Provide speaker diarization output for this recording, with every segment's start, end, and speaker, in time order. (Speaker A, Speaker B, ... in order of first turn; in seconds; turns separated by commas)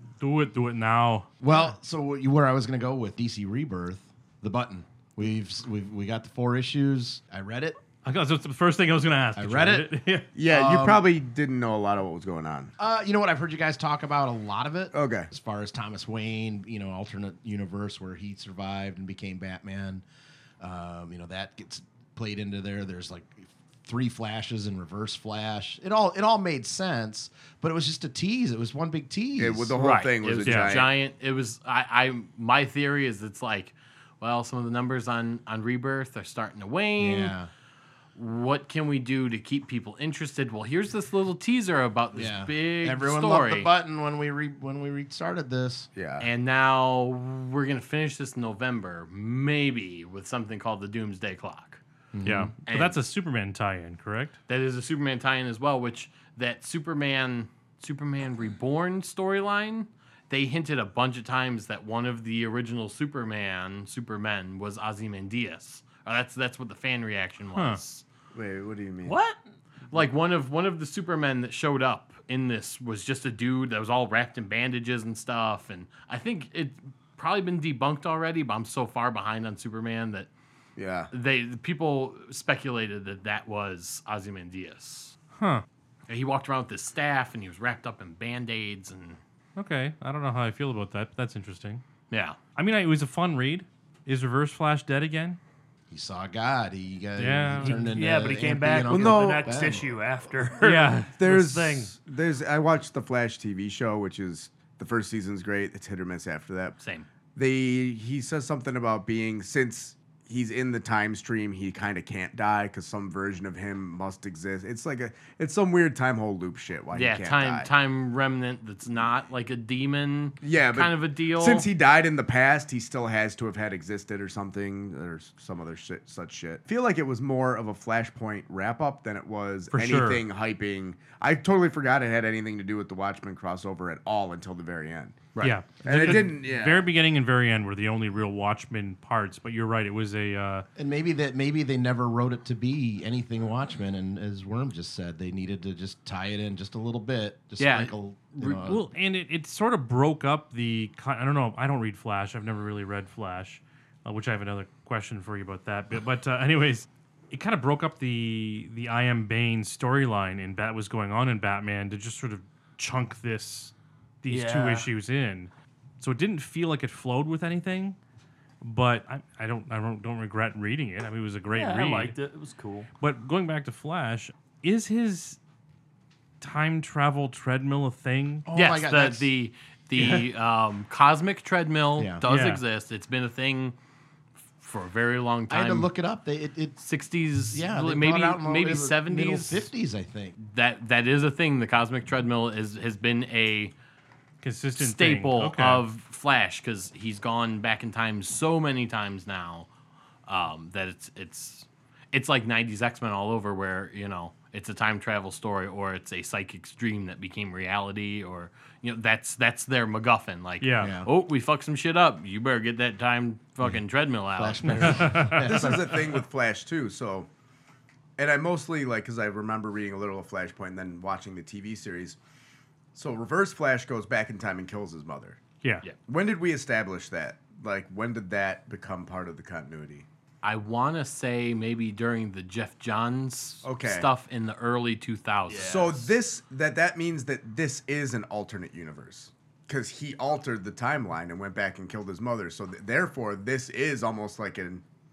Speaker A: 0.2-1.3, Speaker B: 1.4-7.8, Speaker A: 8.0-10.3, Speaker B: 9.3-9.9, Speaker C: 10.3-12.7, Speaker B: 10.4-11.0, Speaker B: 12.8-20.0, Speaker C: 14.9-15.3, Speaker B: 20.6-29.7, Speaker C: 29.4-30.9, Speaker D: 29.8-37.4, Speaker A: 30.4-30.7, Speaker B: 37.0-37.5, Speaker D: 38.1-43.7, Speaker B: 42.1-45.9, Speaker C: 45.9-46.3, Speaker D: 46.2-51.8, Speaker B: 52.1-52.5, Speaker A: 52.2-54.4, Speaker D: 52.6-53.0, Speaker D: 54.5-68.0, Speaker A: 67.5-67.8, Speaker C: 68.3-69.2, Speaker E: 69.0-69.4, Speaker D: 69.9-80.3, Speaker C: 80.8-81.1, Speaker D: 81.1-85.2, Speaker A: 85.3-85.6, Speaker D: 86.1-89.2, Speaker A: 89.6-91.8, Speaker D: 92.1-92.4, Speaker A: 92.5-95.4, Speaker B: 95.9-99.9, Speaker A: 97.2-97.9, Speaker E: 97.6-102.0, Speaker C: 98.9-99.7, Speaker A: 100.6-101.2, Speaker C: 101.2-106.8, Speaker D: 106.8-107.1, Speaker C: 107.3-117.7, Speaker D: 116.9-121.7, Speaker C: 120.4-135.3, Speaker A: 129.7-130.2, Speaker D: 135.3-136.2, Speaker A: 135.4-140.7, Speaker C: 135.8-136.9, Speaker B: 140.8-148.8, Speaker D: 147.6-148.7, Speaker A: 148.6-168.0, Speaker E: 164.3-164.9, Speaker A: 168.6-172.2, Speaker E: 171.5-172.9, Speaker A: 173.0-175.4, Speaker A: 176.4-178.4, Speaker B: 178.4-179.3, Speaker D: 178.5-183.7, Speaker B: 180.0-180.2, Speaker B: 182.0-182.2, Speaker A: 182.2-182.6, Speaker D: 184.6-185.9, Speaker B: 185.5-186.8, Speaker D: 186.8-189.7, Speaker B: 187.5-190.3, Speaker D: 190.4-193.7, Speaker A: 194.4-195.8, Speaker D: 194.8-199.7, Speaker D: 200.3-215.1, Speaker A: 210.6-211.0, Speaker B: 210.8-211.1, Speaker B: 214.3-216.1, Speaker A: 214.7-215.7, Speaker C: 215.4-217.3, Speaker C: 218.2-222.2, Speaker C: 222.9-225.4, Speaker C: 226.1-230.1, Speaker D: 230.4-236.0, Speaker C: 233.6-234.1, Speaker C: 235.5-244.8